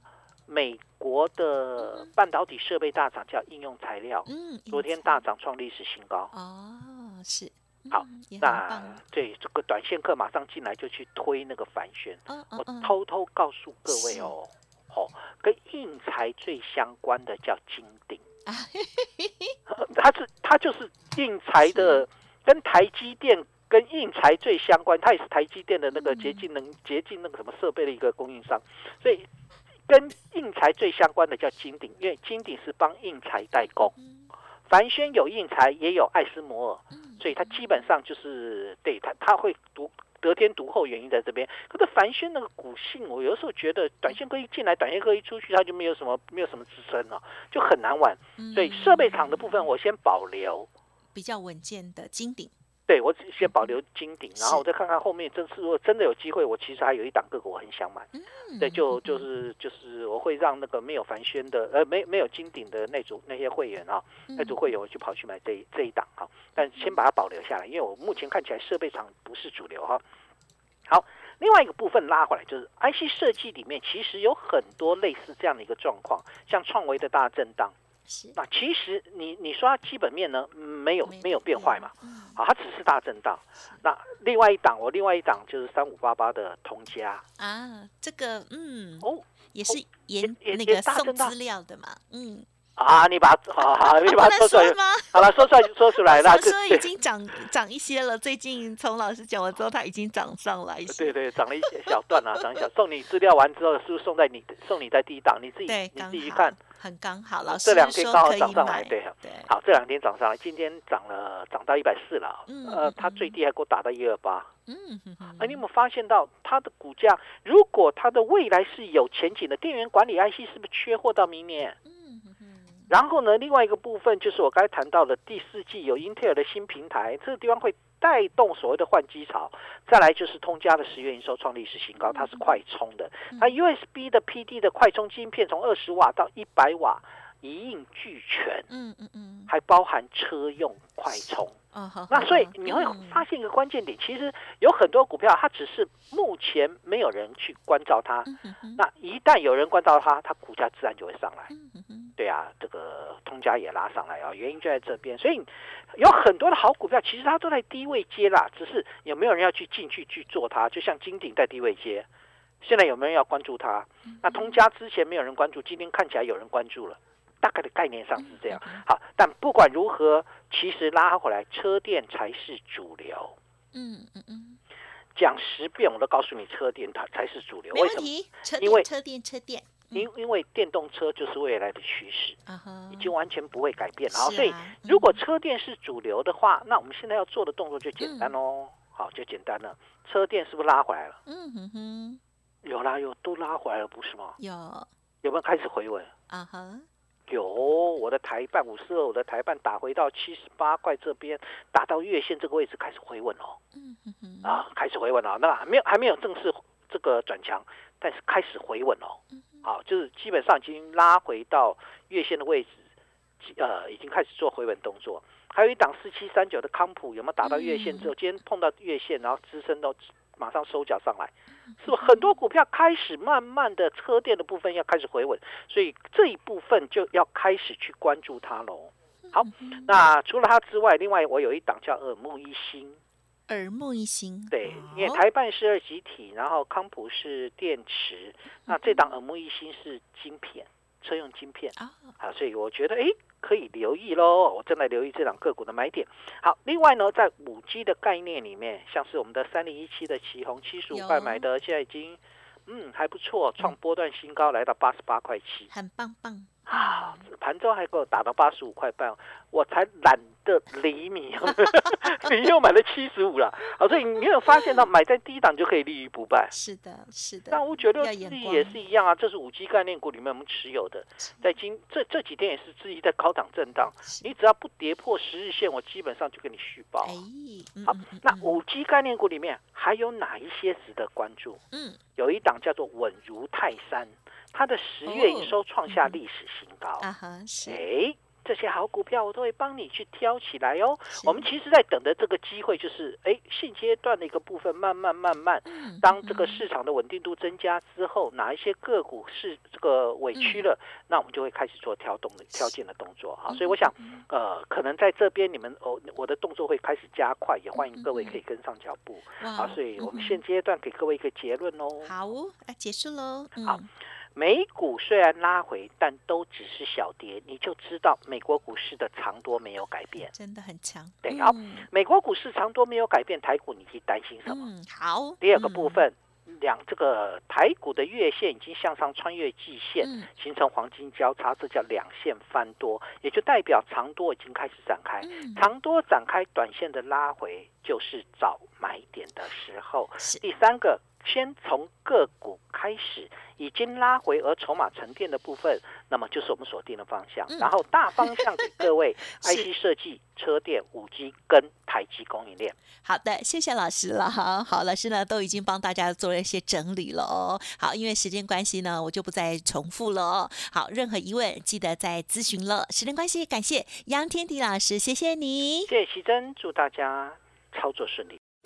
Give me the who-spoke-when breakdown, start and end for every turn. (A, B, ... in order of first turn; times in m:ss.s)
0:00.5-0:06.3 A
0:01.8-0:02.1 B
0:04.3-0:05.2 B
0:06.3-0:09.0 B
0:07.9-0:18.2 A
0:12.3-0:13.0 B
0:13.9-0:14.3 B
0:18.5-0:19.6 B
0:19.7-0:29.3 A
0:21.7-0:22.0 B
0:25.9-0:26.5 B
0:29.9-0:33.9 A
0:33.9-0:34.3 B
0:34.7-0:50.7 A
0:36.9-0:37.6 B
0:48.4-0:49.7 B
0:51.2-0:52.5 B
0:52.9-1:10.0 A
0:53.4-0:53.7 B
0:54.4-0:54.6 B
0:58.1-0:59.3 B
1:04.3-1:04.6 B
1:06.6-1:06.9 B
1:10.9-1:17.8 A
1:18.1-1:18.4 B
1:18.4-1:27.2 A
1:21.1-1:22.4 B
1:27.4-1:32.5 B
1:29.0-1:31.3 A
1:32.8-1:36.9 A
1:33.7-1:42.6 B
1:40.9-1:46.6 A
1:45.7-1:49.5 B
1:47.4-1:54.5 A
1:52.5-1:53.4 B
1:54.7-1:55.6 B
1:55.4-2:01.8 A
2:01.8-2:02.9 B
2:02.9-2:18.7 A
2:12.0-2:12.5 B
2:18.7-2:19.5 B
2:19.5-2:21.6 A
2:21.7-2:23.2 B
2:22.1-2:31.5 A
2:28.3-2:28.8 B
2:31.5-2:32.1 B
2:32.2-2:42.1 A
2:42.6-2:53.4 A
2:44.0-2:44.6 B
2:48.2-2:48.8 B
2:53.7-2:54.6 B
2:55.2-2:58.9 A
2:57.7-3:00.1 B
2:59.9-3:02.4 A
3:02.5-3:03.1 B
3:02.9-3:11.2 A
3:04.1-3:05.2 B
3:08.0-3:08.4 B
3:11.3-3:12.2 B
3:12.6-3:14.4 A
3:14.4-3:14.9 B
3:15.2-3:16.1 A
3:16.3-3:16.9 B
3:17.3-3:23.6 A
3:23.7-3:24.6 B
3:24.4-3:32.8 A
3:29.3-3:29.6 B
3:33.4-3:53.0 A
3:37.4-3:38.1 B
3:41.7-3:42.4 B
3:49.2-3:49.9 B
3:53.5-3:55.2 B
3:54.5-4:15.7 A
3:58.7-3:59.1 B
4:01.8-4:02.1 B
4:10.9-4:11.5 B
4:15.7-4:17.2 B
4:16.7-4:26.5 A
4:24.5-4:24.8 B
4:26.5-4:28.8 B
4:27.5-4:37.2 A
4:31.2-4:31.5 B
4:34.1-4:34.3 B
4:37.0-4:38.6 B
4:37.9-4:41.6 A
4:41.7-4:42.0 B
4:42.2-4:47.1 A
4:45.1-4:46.2 B
4:47.0-4:47.8 B
4:47.6-5:12.1 A
4:51.2-4:51.5 B
4:55.7-4:56.6 B
5:00.4-5:00.6 B
5:03.5-5:04.2 B
5:07.8-5:08.4 B
5:09.4-5:10.4 B
5:12.0-5:13.9 B
5:14.4-5:20.3 A
5:20.3-5:21.9 B
5:21.2-5:24.7 A
5:24.5-5:26.0 B
5:25.4-5:52.8 A
5:30.0-5:30.3 B
5:35.2-5:35.7 B
5:47.5-5:48.9 B
5:53.0-6:05.9 B
6:05.9-6:08.4 A